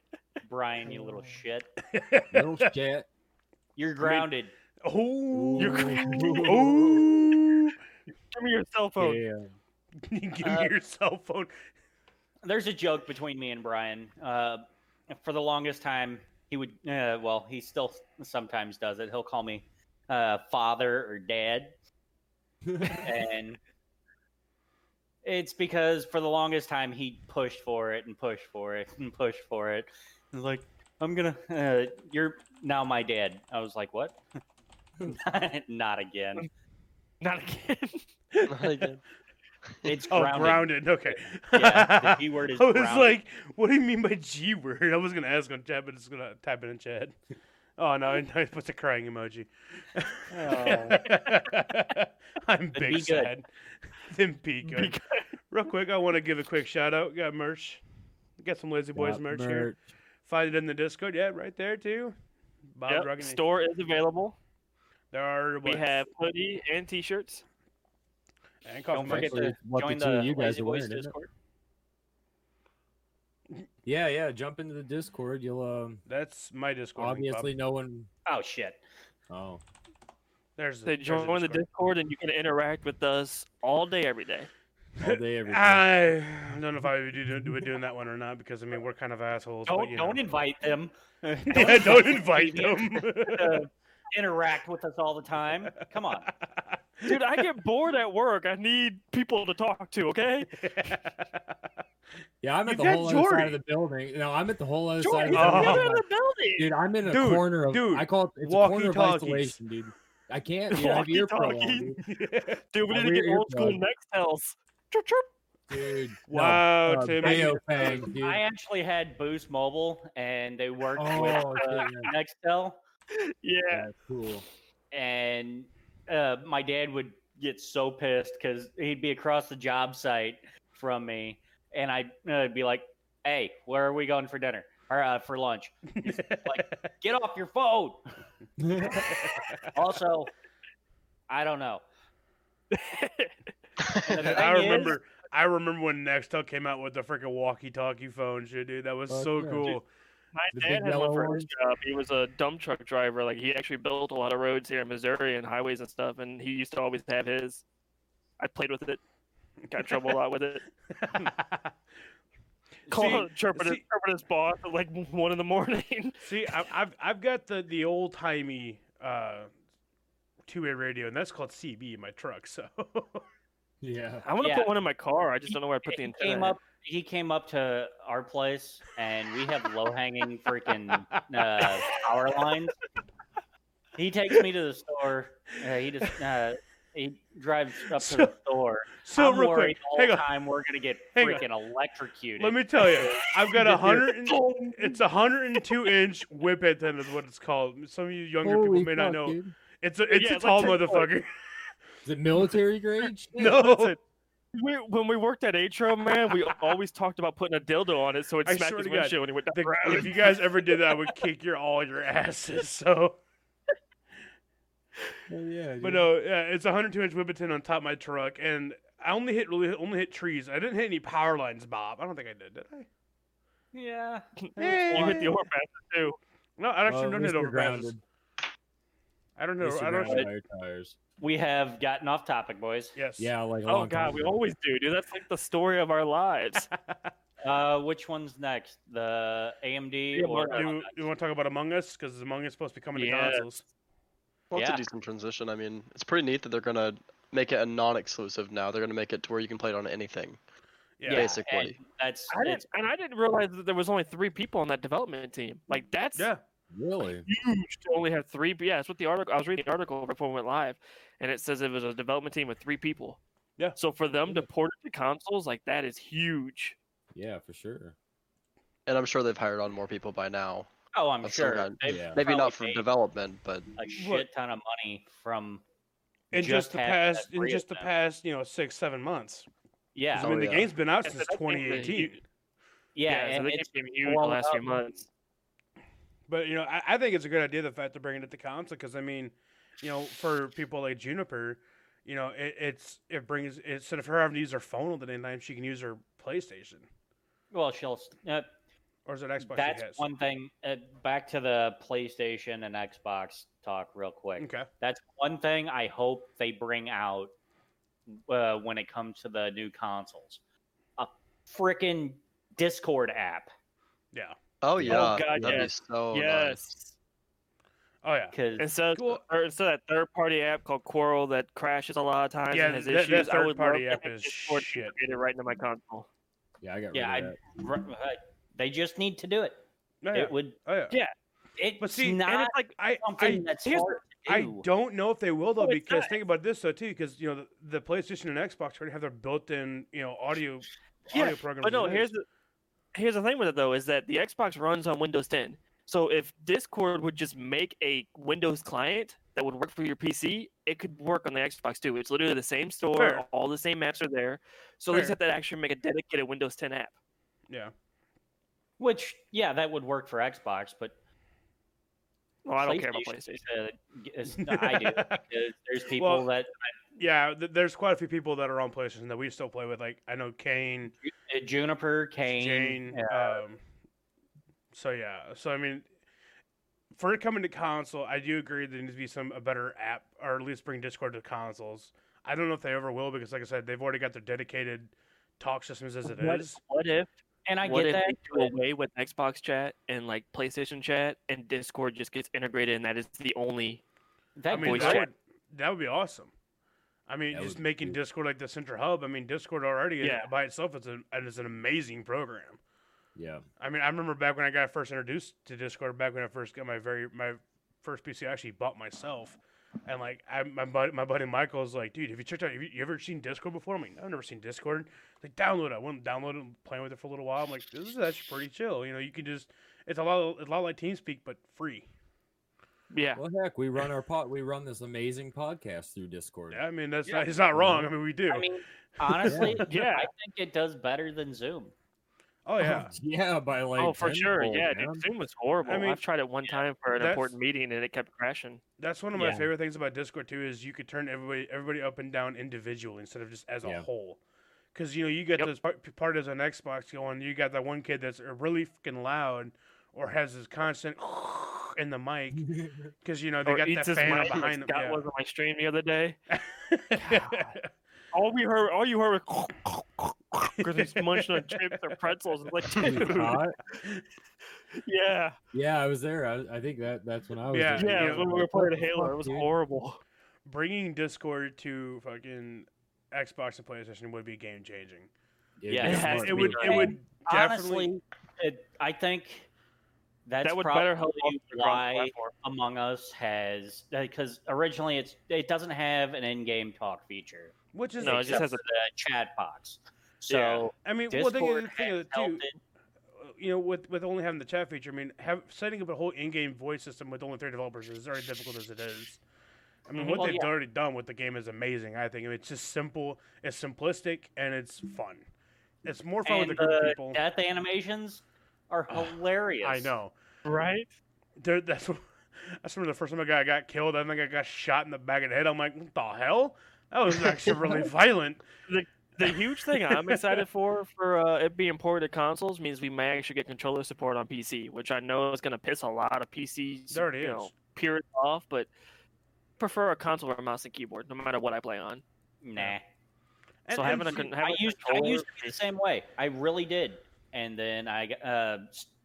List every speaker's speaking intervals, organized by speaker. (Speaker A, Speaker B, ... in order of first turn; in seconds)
Speaker A: 0.4-1.7, 3.8-4.5, 10.4-10.7, 12.4-21.8, 22.9-23.6, 25.2-34.2, 35.0-36.5, 39.8-43.2, 50.3-51.0, 52.8-53.3, 68.9-71.3, 78.3-78.8, 89.7-96.3, 117.2-122.8, 124.9-138.0, 139.7-140.3, 141.3-141.8, 144.0-145.0, 162.9-163.2, 174.4-174.7, 175.9-182.8, 184.0-193.2, 223.7-225.3, 231.2-232.9, 237.4-241.0, 244.6-244.8, 251.1-252.7, 270.9-272.9, 273.8-275.6, 276.3-277.9, 279.9-280.4, 282.9-284.7, 297.5-298.5, 299.4-307.3, 308.1-310.4, 311.0-313.5, 318.3-318.7, 326.9-329.6, 330.1-330.6, 331.6-334.7, 358.8-361.0, 362.6-366.7, 371.0-373.4, 387.5-388.5, 394.4-395.1, 428.3-431.7, 475.7-479.5, 480.3-492.6, 500.0-500.5, 506.2-509.9, 532.4-532.8, 534.3-538.9
Speaker B: 1.9-2.7, 4.0-4.3, 4.8-7.8, 10.1-11.5, 40.1-47.2, 47.8-53.5, 54.1-55.0, 55.5-57.8, 58.4-59.7, 60.2-62.1, 62.8-63.4, 65.1-66.0, 68.6-69.4, 76.1-77.5, 80.6-81.6, 85.0-90.2, 91.5-93.7, 96.5-97.2, 100.6-101.2, 102.7-103.6, 105.3-105.9, 107.1-109.6, 112.1-112.6, 116.3-118.0, 136.0-136.8, 139.0-139.7, 144.2-149.9, 161.0-161.7, 162.9-163.8, 166.2-169.5, 170.5-173.2, 188.0-188.3, 189.0-190.3, 191.2-191.4, 192.4-201.3, 203.4-204.0, 208.5-213.2, 215.8-222.9, 224.6-225.3, 226.6-228.0, 229.4-230.3, 232.9-233.3, 240.5-243.6, 251.0-251.3, 274.0-274.3, 276.3-279.5, 280.2-282.2, 286.3-296.9, 299.1-300.0, 304.4-304.7, 318.0-318.4, 318.9-319.2, 322.5-324.9, 330.0-330.9, 331.8-333.4, 334.3-342.1, 352.9-353.2, 364.4-365.2, 366.0-366.3, 367.0-370.9, 372.3-373.6, 374.7-375.9, 376.9-386.6, 394.5-396.3, 397.1-402.6, 403.6-421.9, 426.5-428.5, 429.1-429.7, 432.5-432.9, 435.7-437.3, 438.8-444.2, 444.7-452.5, 453.0-455.0, 456.4-457.7, 460.7-461.6, 462.8-463.4, 467.5-468.3, 470.4-475.1, 475.9-477.9, 487.7-488.4, 490.8-492.4, 493.2-499.2, 499.9-505.3, 505.9-507.2, 508.9-510.1, 511.4-512.0, 512.6-518.4, 519.2-520.4, 526.9-527.5, 533.7-534.3
Speaker C: 2.3-3.1, 5.3-7.3, 9.0-9.5, 22.7-23.1, 59.0-59.8, 69.0-71.1, 73.8-76.0, 77.0-78.1, 79.3-79.6, 85.0-85.9, 102.4-106.1, 106.6-112.0, 112.9-113.8, 115.7-118.4, 121.0-122.1, 123.7-124.5, 138.6-139.2, 149.1-149.7, 150.5-151.5, 173.8-174.3, 198.4-199.6, 202.1-203.9, 215.3-216.1, 226.9-228.0, 229.6-231.0, 233.2-234.4, 256.7-257.3, 267.1-267.9, 271.8-272.2, 314.8-315.7, 326.6-327.4, 397.3-398.0, 403.2-403.4, 423.2-426.6, 427.5-427.9, 429.3-429.6, 432.6-435.0, 439.1-439.5, 452.4-452.9, 462.8-463.6, 465.5-469.5, 475.6-476.9
Speaker D: 5.6-6.7, 8.3-9.2, 37.2-38.1, 54.6-55.2, 62.9-64.4, 65.7-67.4, 80.9-84.5, 97.1-100.5, 105.0-106.7, 110.7-112.0, 112.7-115.3, 121.3-122.1, 123.1-123.9, 142.7-143.3, 150.3-157.6, 158.4-159.0, 159.7-160.7, 162.9-166.2, 174.2-176.6, 194.3-194.9, 200.1-201.1, 204.5-210.5, 224.4-226.2, 233.7-236.7, 240.2-240.7, 242.9-243.5, 252.3-256.3, 257.3-263.2, 263.8-266.8, 281.0-282.2, 283.1-285.1, 314.9-316.9, 318.6-326.1, 332.3-332.7, 333.7-333.9, 335.6-336.2, 341.1-342.2, 342.9-356.9, 362.4-363.4, 386.1-387.1, 387.6-393.8, 394.6-395.1, 400.0-400.3, 422.9-423.2, 429.7-430.1, 433.8-438.6, 453.5-456.2, 457.0-457.5, 458.1-463.8, 464.8-465.4, 467.8-470.0, 475.8-476.9, 480.4-482.2, 488.0-488.6, 490.3-490.6, 500.0-500.4, 510.4-510.9, 518.7-528.7, 529.6-532.0, 533.7-535.6
Speaker E: 38.5-39.0, 244.5-250.4, 251.1-251.8, 268.9-270.7, 271.2-273.7, 280.2-280.7, 314.6-316.6